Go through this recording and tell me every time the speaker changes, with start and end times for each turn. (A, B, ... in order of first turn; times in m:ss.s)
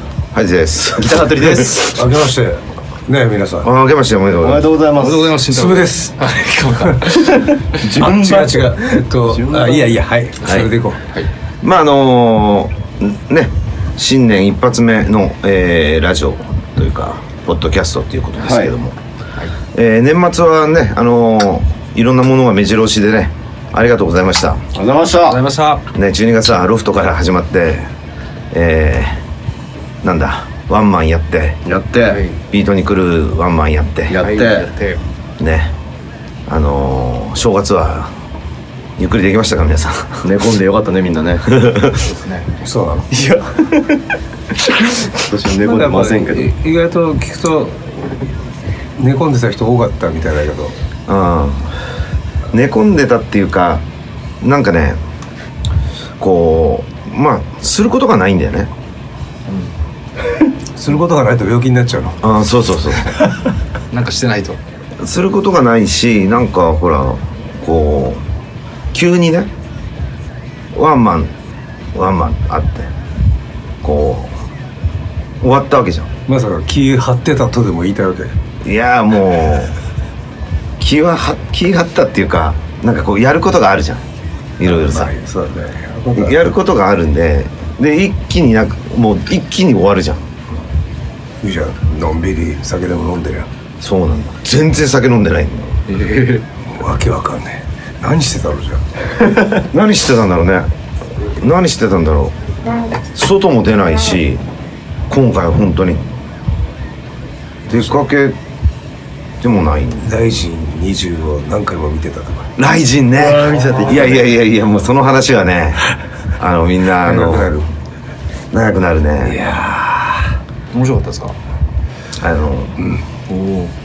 0:00.3-0:01.7 A
0:01.0-0:02.0 B
0:01.8-0:03.7 C
0:03.6-0:04.7 A
0:04.4-0:05.4 B
0:04.9-0:07.3 D
0:05.5-0:06.2 C
0:07.2-0:10.0 B
0:07.9-0:11.0 C
0:10.4-0:10.7 A
0:11.6-0:19.0 A
0:18.4-0:18.7 B
0:19.7-0:24.6 A
0:24.7-0:25.4 B
0:25.2-0:25.8 D
0:25.9-0:27.9 A
0:28.5-0:29.2 A
0:30.0-0:31.6 A
0:31.6-0:32.2 B
0:32.0-0:32.4 D
0:32.5-0:34.2 A
0:34.1-0:34.7 B
0:34.2-0:35.0 D
0:35.4-0:35.7 A
0:36.5-0:38.1 A
0:39.0-0:40.3 A
0:40.2-0:41.6 B
0:41.5-0:41.9 A
0:41.9-0:42.5 D
0:42.6-0:43.1 C
0:43.1-0:44.0 B
0:45.0-0:46.5 B
0:45.6-0:48.0 C
0:49.0-0:50.7 C
0:51.1-0:51.7 A
0:52.5-0:53.8 A
0:54.4-0:55.0 A
0:56.2-0:58.7 A
1:00.7-1:02.2 C
1:02.2-1:03.2 A
1:03.9-1:04.6 D
1:05.0-1:08.2 A
1:08.9-1:09.5 A
1:10.7-1:11.3 A
1:11.9-1:12.9 A
1:13.8-1:14.4 A
1:15.4-1:16.1 A
1:16.3-1:18.3 C
1:18.6-1:19.7 A
1:20.8-1:24.0 A
1:24.6-1:25.1 A
1:24.7-1:26.5 C
1:26.1-1:30.2 A
1:31.4-1:33.5 C
1:33.8-1:35.8 A
1:35.9-1:36.4 D
1:36.7-1:38.8 C
1:39.6-1:40.7 A
1:41.4-1:42.3 A
1:43.1-1:44.4 A
1:45.1-1:46.1 A
1:47.7-1:48.4 A
1:49.4-1:50.1 A
1:50.0-1:52.5 C
1:52.6-1:55.8 A
1:53.2-1:54.3 B
1:56.4-1:57.5 A
1:57.0-1:57.7 C
1:58.5-1:59.4 A
1:59.2-2:00.3 C
2:00.7-2:01.4 D
2:02.2-2:02.8 A
2:03.3-2:03.7 D